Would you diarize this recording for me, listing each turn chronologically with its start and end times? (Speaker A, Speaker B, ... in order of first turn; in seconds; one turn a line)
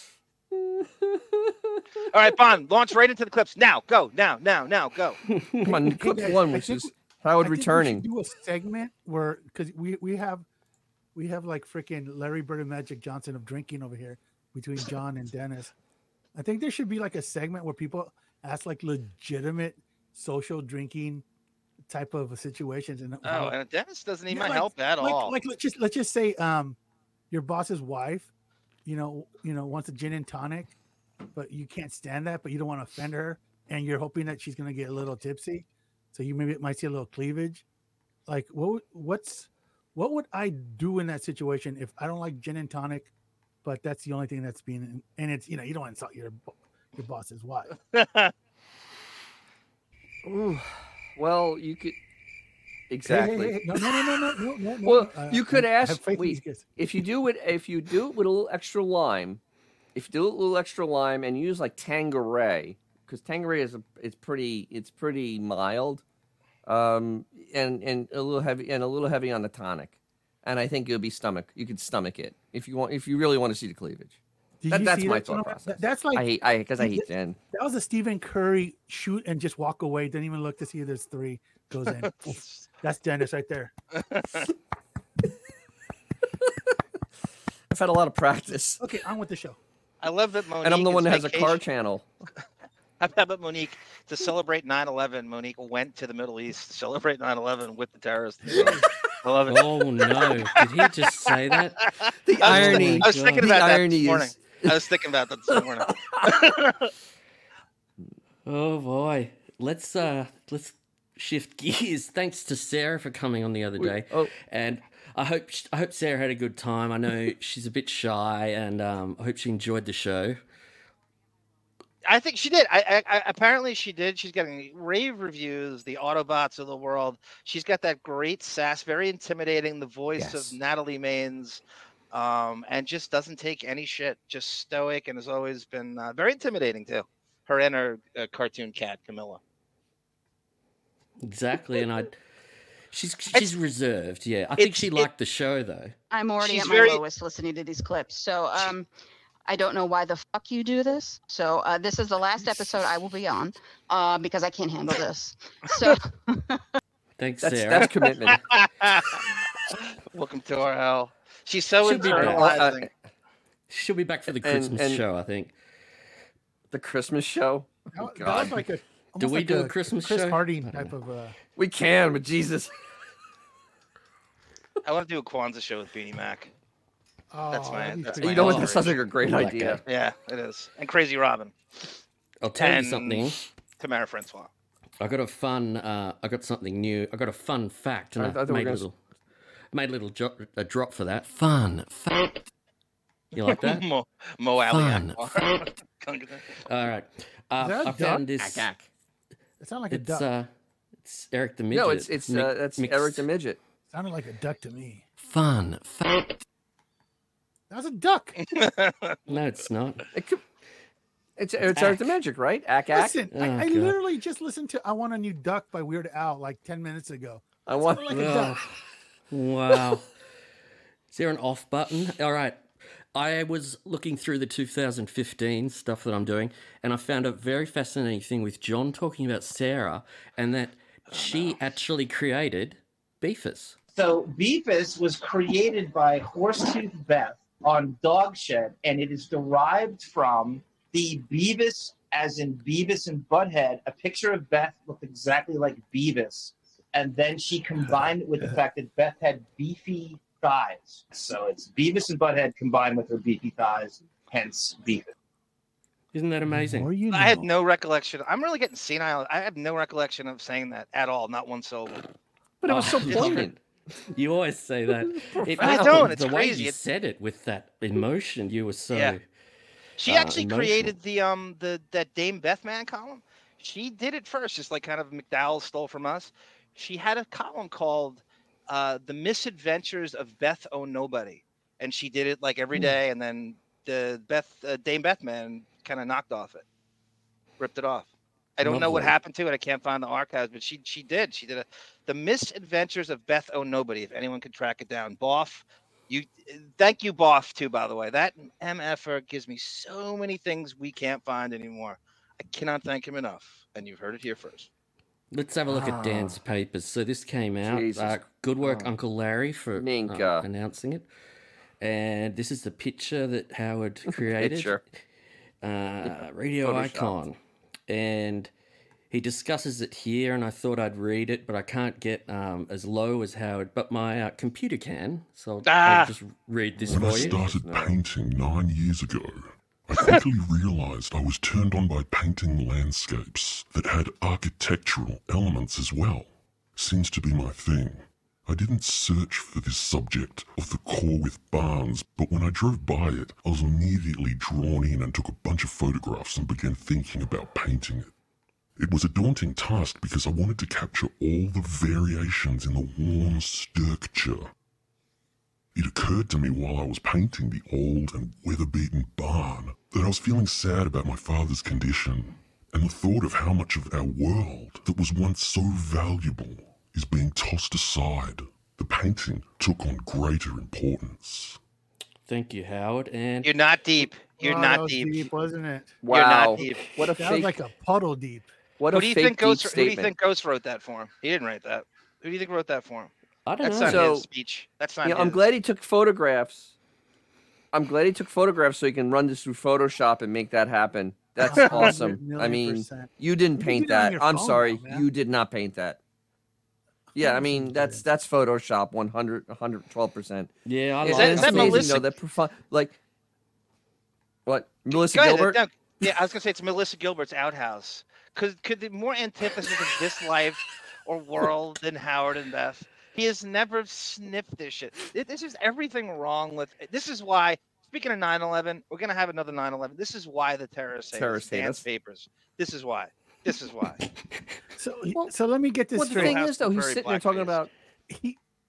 Speaker A: 0.5-1.8
Speaker B: 2.1-5.2
Speaker A: 5.6-8.1
Speaker C: 5.7-10.4
Speaker C: 11.2-15.7
Speaker C: 16.4-21.2
Speaker C: 21.9-23.6
Speaker B: 23.2-25.4
Speaker C: 24.3-26.8
Speaker C: 27.3-28.3
Speaker C: 28.9-30.8
Speaker C: 31.3-37.6
Speaker C: 38.3-43.1
Speaker C: 43.6-47.7
Speaker B: 47.8-48.3
Speaker A: 50.2-52.0
Speaker A: 52.9-54.0
Speaker C: 53.0-56.7
Speaker A: 54.8-59.4
Speaker A: 60.0-66.0
Speaker A: 66.7-74.1
Speaker C: 74.6-76.3
Speaker A: 74.7-77.4
Speaker C: 76.8-83.7
Speaker B: 82.0-82.7
Speaker B: 84.0-84.5
Speaker A: 87.7-88.8
Speaker C: 88.8-89.6
Speaker B: 90.0-91.6
Speaker A: 90.6-92.1
Speaker B: 93.0-99.7
Speaker C: 98.5-98.9
Speaker A: 98.5-98.8
Speaker D: 99.5-101.9
Speaker B: 100.2-100.6
Speaker B: 101.8-106.9
Speaker A: 102.3-104.9
Speaker D: 102.4-103.5
Speaker A: 105.5-106.4
Speaker D: 108.5-120.4
Speaker A: 113.8-114.3
Speaker B: 122.1-139.4
Speaker A: 130.2-130.6
Speaker D: 141.2-142.2
Speaker D: 142.9-145.9
Speaker B: 144.6-145.1
Speaker E: 146.1-148.9
Speaker B: 146.4-147.0
Speaker E: 149.5-156.6
Speaker D: 157.2-157.9
Speaker A: 157.4-158.4
Speaker B: 157.9-162.9
Speaker D: 161.8-162.7
Speaker A: 162.0-162.9
Speaker D: 163.7-165.5
Speaker A: 164.4-165.0
Speaker A: 166.7-168.6
Speaker C: 167.9-171.3
Speaker D: 169.2-170.9
Speaker A: 171.6-172.7
Speaker B: 174.8-176.5
Speaker C: 177.3-179.0
Speaker B: 177.5-178.8
Speaker A: 178.2-179.8
Speaker D: 178.4-179.8
Speaker B: 179.8-181.5
Speaker D: 182.4-183.4
Speaker B: 182.6-184.5
Speaker D: 185.0-189.0
Speaker A: 188.2-188.9
Speaker D: 189.7-192.4
Speaker D: 193.3-193.9
Speaker B: 193.5-196.4
Speaker D: 194.7-195.6
Speaker D: 196.7-198.7
Speaker C: 197.6-198.2
Speaker A: 198.0-198.9
Speaker C: 199.6-200.3
Speaker D: 199.9-200.5
Speaker D: 201.0-203.2
Speaker A: 201.7-203.6
Speaker C: 203.9-205.0
Speaker D: 205.3-206.4
Speaker C: 207.7-208.4
Speaker B: 208.4-209.4
Speaker D: 209.3-210.1
Speaker A: 210.1-210.4
Speaker A: 211.4-213.2
Speaker D: 211.8-212.1
Speaker C: 212.9-218.6
Speaker D: 213.3-214.0
Speaker A: 217.7-218.4
Speaker D: 218.1-218.6
Speaker D: 219.3-220.1
Speaker D: 221.1-222.6
Speaker D: 223.2-233.8
Speaker B: 231.1-231.6
Speaker F: 233.9-255.1
Speaker D: 256.1-256.9
Speaker C: 256.4-257.5
Speaker B: 257.1-262.0
Speaker A: 262.6-263.6
Speaker D: 262.7-263.6
Speaker B: 263.1-263.4
Speaker D: 264.1-269.2
Speaker A: 265.1-266.1
Speaker B: 265.6-266.8
Speaker B: 268.9-269.2
Speaker B: 270.0-286.6
Speaker D: 270.1-270.9
Speaker B: 287.6-288.1
Speaker B: 288.6-304.7
Speaker D: 288.6-289.1
Speaker D: 305.3-311.1
Speaker A: 305.7-306.4
Speaker A: 307.6-308.9
Speaker A: 309.8-310.4
Speaker D: 311.8-314.8
Speaker A: 314.1-314.8
Speaker D: 315.6-317.4
Speaker A: 316.0-317.2
Speaker D: 317.9-318.5
Speaker D: 319.1-327.4
Speaker B: 325.6-326.1
Speaker G: 326.9-348.1
Speaker A: 326.9-328.0
Speaker G: 348.8-354.5
Speaker G: 355.8-371.6
Speaker D: 372.3-373.5
Speaker B: 373.4-375.3
Speaker C: 374.4-376.0
Speaker A: 376.0-377.6
Speaker B: 376.1-376.9
Speaker C: 376.6-378.5
Speaker A: 378.8-380.1
Speaker B: 378.9-383.1
Speaker D: 383.5-384.1
Speaker B: 383.6-385.4
Speaker A: 383.8-384.3
Speaker A: 385.0-386.8
Speaker A: 387.7-396.0
Speaker C: 391.4-395.1
Speaker B: 391.5-391.9
Speaker C: 397.1-398.1
Speaker A: 397.1-400.5
Speaker D: 400.7-402.1
Speaker A: 401.0-403.0
Speaker B: 401.1-402.1
Speaker A: 404.5-405.6
Speaker B: 404.9-424.0
Speaker A: 421.1-421.8
Speaker C: 424.8-426.4
Speaker A: 425.9-427.7
Speaker B: 426.1-427.6
Speaker C: 428.1-428.4